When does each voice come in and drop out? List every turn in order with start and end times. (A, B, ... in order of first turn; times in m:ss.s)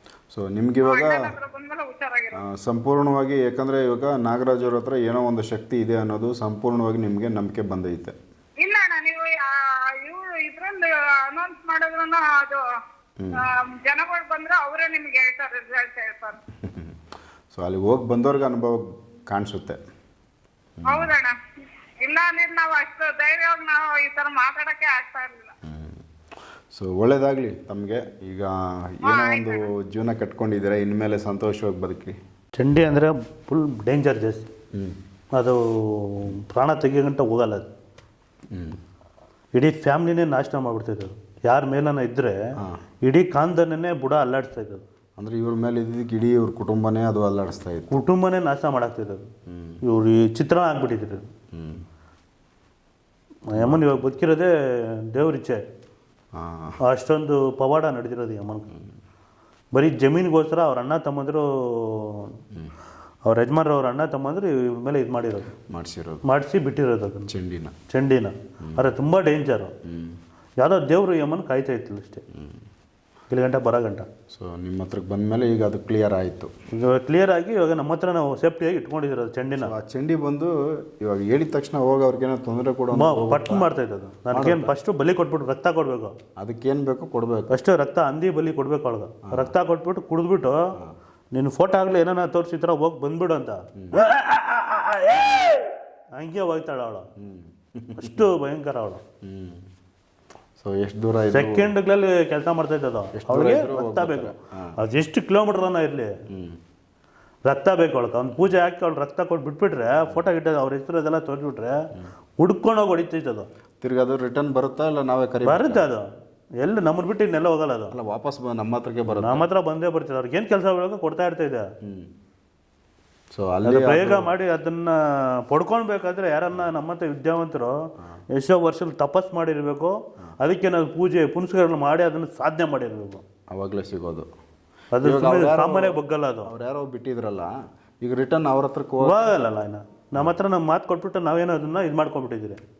0:00.3-0:01.3 A
0:00.8-0:02.4 B
0:02.3-0:08.2 A
0:08.6-0:12.6 B
0:13.2-0:13.4 A
0:13.4-0:16.4 B
0:16.6-0:17.0 A
0:17.5-0:19.8 A
0:20.8-0:21.1 A
0:20.9-0:21.3 B
0:22.0-0:25.5 B
0:25.6-0:26.0 A
0:26.7-0:32.2 A
0:29.0-0:29.6 B
0:32.6-0:34.5 C
0:35.3-0:37.7 C
0:38.5-0:38.8 A
0:39.5-0:42.4 C
0:43.0-0:44.8 C
0:45.2-0:48.0 A
0:47.9-0:49.3 C
0:49.5-0:49.8 A
0:49.8-0:51.3 C
0:51.5-0:51.8 A
0:53.5-0:55.6 C
0:53.6-0:53.9 A
0:56.3-0:56.8 A
0:56.8-0:58.7 C
0:59.7-1:02.3 C
1:03.2-1:05.5 C
1:05.7-1:06.2 A
1:06.2-1:07.3 C
1:07.3-1:07.7 A
1:07.9-1:09.7 C
1:09.8-1:10.2 A
1:10.6-1:12.2 C
1:12.3-1:12.6 A
1:13.3-1:14.1 C
1:14.3-1:16.5 A
1:16.7-1:19.7 C
1:19.6-1:23.7 A
1:22.9-1:26.2 C
1:24.3-1:24.7 A
1:26.4-1:27.6 A
1:27.5-1:30.7 C
1:29.2-1:29.5 A
1:31.3-1:35.6 C
1:33.8-1:34.0 A
1:36.2-1:37.1 C
1:37.2-1:38.3 A
1:38.0-1:39.0 C
1:39.2-1:39.6 A
1:40.6-1:41.7 A
1:41.3-1:46.2 C
1:43.1-1:44.8 A
1:46.3-1:46.6 A
1:47.4-1:51.8 C
1:52.4-1:53.5 C
1:53.8-1:55.9 A
1:55.4-1:56.1 C
1:56.6-1:57.9 C
1:57.9-1:59.5 A
1:59.1-2:01.7 C
2:01.8-2:02.1 A
2:03.3-2:04.3 A
2:03.6-2:07.8 C
2:08.3-2:13.2 C
2:13.5-2:14.3 A
2:14.9-2:16.5 C
2:15.0-2:19.3 A
2:19.0-2:22.6 C